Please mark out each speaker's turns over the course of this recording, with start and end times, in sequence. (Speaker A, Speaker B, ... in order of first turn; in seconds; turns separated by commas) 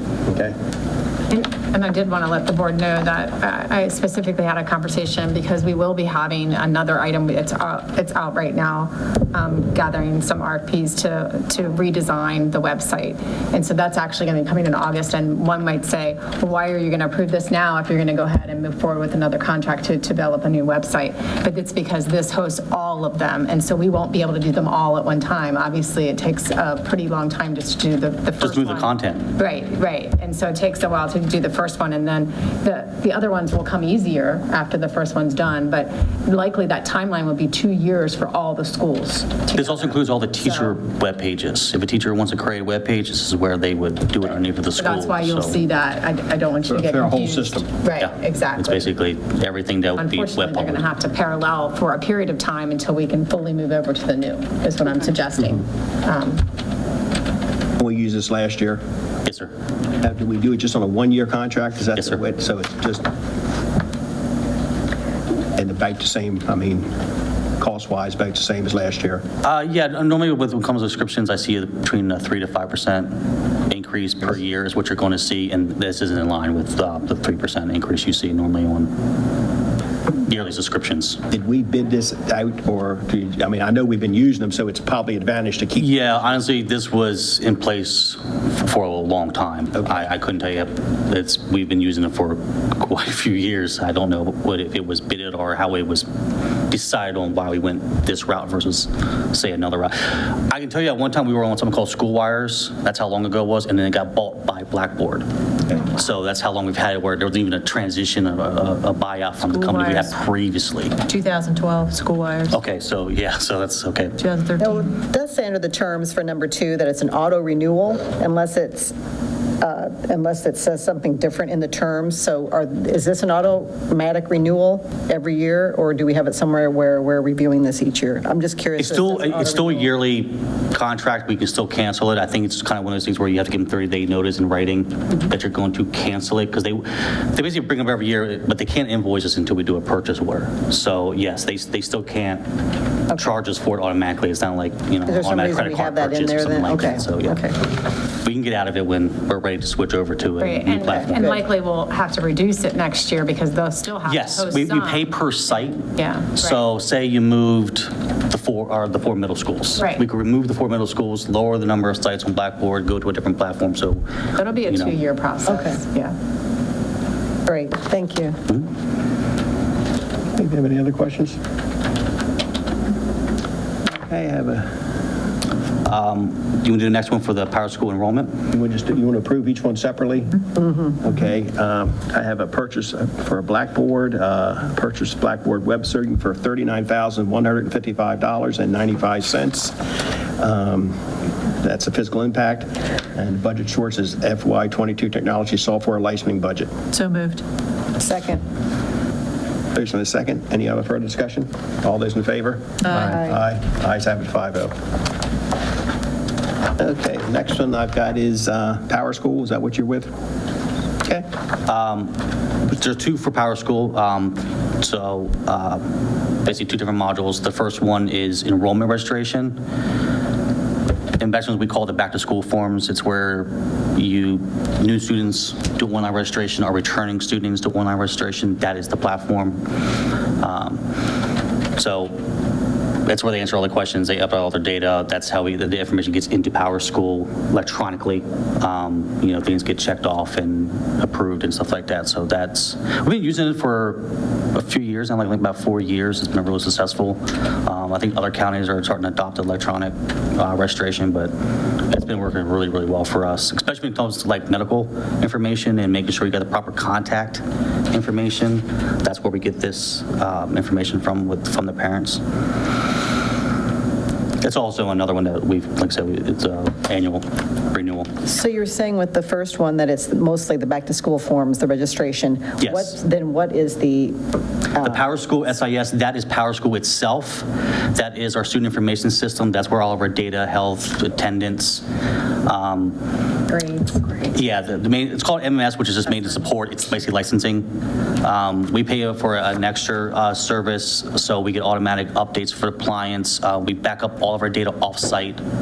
Speaker A: 0.3-0.6, Speaker B: 1.3-40.8, Speaker C: 28.4-29.3, Speaker C: 39.5-45.6, Speaker B: 44.8-48.9, Speaker A: 46.6-47.7, Speaker C: 48.0-50.9, Speaker B: 50.0-56.4, Speaker A: 57.8-58.8, Speaker C: 59.3-59.5, Speaker A: 60.0-63.1, Speaker A: 65.6-66.9, Speaker A: 67.6-69.2, Speaker C: 69.4-73.1, Speaker C: 73.7-78.9, Speaker C: 80.2-81.2, Speaker A: 81.3-86.0, Speaker C: 85.8-96.1, Speaker C: 96.7-111.0, Speaker D: 109.4-110.1, Speaker D: 111.1-112.6, Speaker C: 112.5-114.2, Speaker D: 114.2-114.8, Speaker E: 114.6-118.9, Speaker E: 119.6-129.9, Speaker C: 128.8-142.4, Speaker C: 143.1-147.5, Speaker E: 145.1-147.6, Speaker C: 148.2-151.3, Speaker B: 150.4-156.6, Speaker E: 150.9-151.4, Speaker C: 154.1-164.0, Speaker B: 159.8-160.0, Speaker B: 164.4-166.2, Speaker C: 164.6-165.0, Speaker E: 165.5-165.8, Speaker E: 167.5-168.4, Speaker A: 170.3-171.4, Speaker A: 173.9-174.8, Speaker C: 175.8-178.4, Speaker A: 178.5-189.8, Speaker A: 190.4-191.0, Speaker A: 191.6-196.7, Speaker D: 196.9-197.4, Speaker E: 198.0-198.4, Speaker A: 199.8-204.7, Speaker E: 202.9-203.4, Speaker A: 206.8-210.1, Speaker C: 211.7-212.1, Speaker C: 212.7-215.8, Speaker C: 216.4-219.6, Speaker C: 221.2-229.6, Speaker C: 230.4-230.8, Speaker C: 231.8-232.2, Speaker C: 233.1-262.2, Speaker C: 264.4-268.1, Speaker E: 268.2-274.2, Speaker C: 272.6-272.9, Speaker E: 274.7-275.1, Speaker C: 274.8-281.8, Speaker C: 282.5-283.0, Speaker B: 283.5-284.3, Speaker C: 284.3-287.7, Speaker C: 288.2-295.4